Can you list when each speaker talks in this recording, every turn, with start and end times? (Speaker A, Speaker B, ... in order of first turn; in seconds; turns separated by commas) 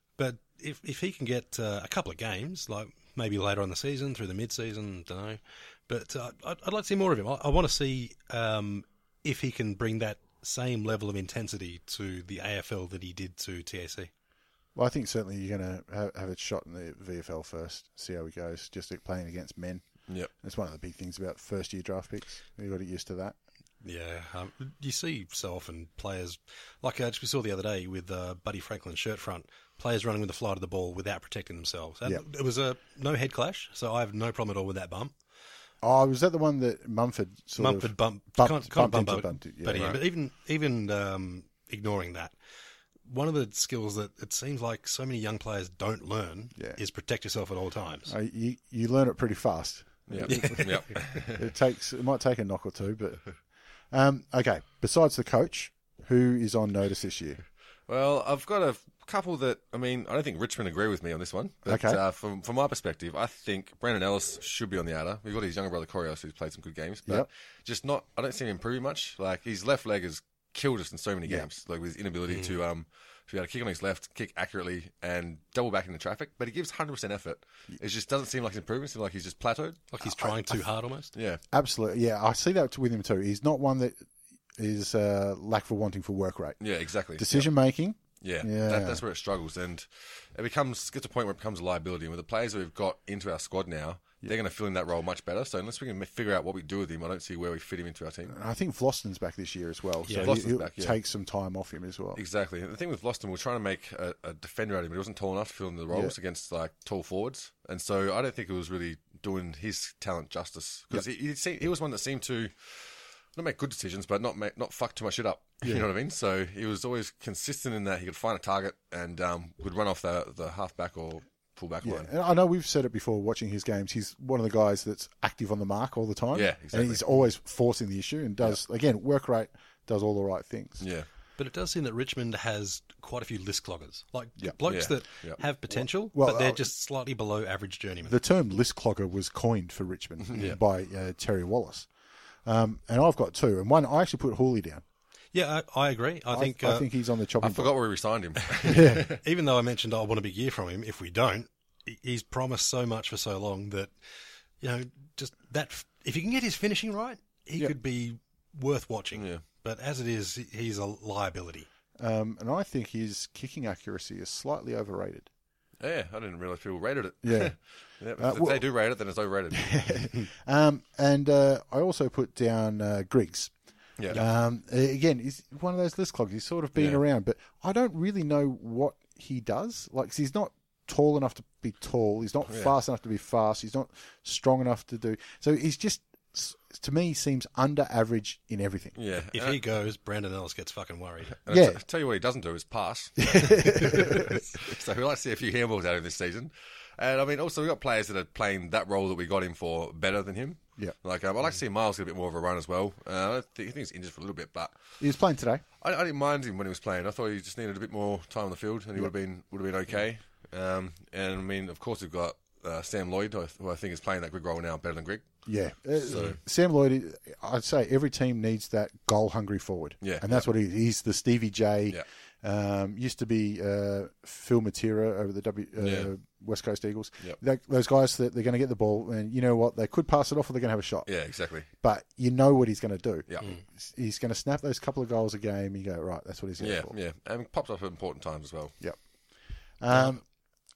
Speaker A: 0.2-14.1, Speaker B: 14.7-19.9, Speaker B: 20.4-23.4, Speaker A: 23.8-35.1, Speaker B: 35.8-40.0, Speaker A: 37.6-42.3, Speaker C: 39.7-40.0, Speaker A: 43.0-48.1, Speaker B: 48.1-53.3, Speaker C: 50.1-51.5, Speaker A: 50.3-50.7, Speaker B: 53.9-57.4, Speaker C: 57.9-79.9, Speaker B: 61.6-62.0, Speaker A: 79.9-81.1, Speaker B: 80.0-80.6, Speaker C: 81.1-81.4, Speaker B: 81.5-86.6, Speaker C: 86.6-87.5, Speaker B: 87.2-89.0, Speaker C: 88.2-98.3, Speaker B: 98.3-102.2, Speaker A: 100.1-100.3, Speaker C: 100.2-101.0, Speaker C: 102.2-122.1, Speaker B: 121.8-130.8, Speaker C: 126.3-127.2, Speaker C: 130.8-131.1, Speaker A: 131.4-138.2, Speaker C: 134.7-135.4, Speaker B: 135.7-136.7, Speaker B: 138.0-141.9, Speaker C: 140.2-140.6, Speaker B: 142.4-144.8, Speaker A: 145.3-146.9, Speaker B: 146.3-147.8, Speaker C: 147.4-149.2, Speaker B: 148.6-149.1, Speaker A: 149.2-153.9, Speaker A: 154.6-161.7, Speaker C: 159.1-159.4, Speaker B: 162.0-165.3, Speaker C: 165.8-170.0, Speaker B: 167.2-167.5, Speaker B: 168.2-168.6, Speaker B: 169.5-173.5, Speaker C: 174.0-174.2, Speaker B: 174.1-188.9, Speaker C: 176.8-177.0, Speaker C: 182.5-182.7, Speaker C: 188.9-189.6, Speaker A: 189.3-191.3, Speaker C: 191.4-204.8, Speaker B: 191.5-191.8, Speaker B: 193.2-194.6, Speaker B: 205.0-205.6, Speaker C: 205.8-215.3, Speaker B: 215.4-231.1, Speaker C: 216.0-216.4, Speaker C: 220.0-220.5, Speaker C: 225.8-226.1, Speaker C: 231.1-231.7, Speaker B: 231.7-236.9, Speaker C: 233.3-233.6, Speaker C: 236.6-238.7, Speaker B: 239.8-240.2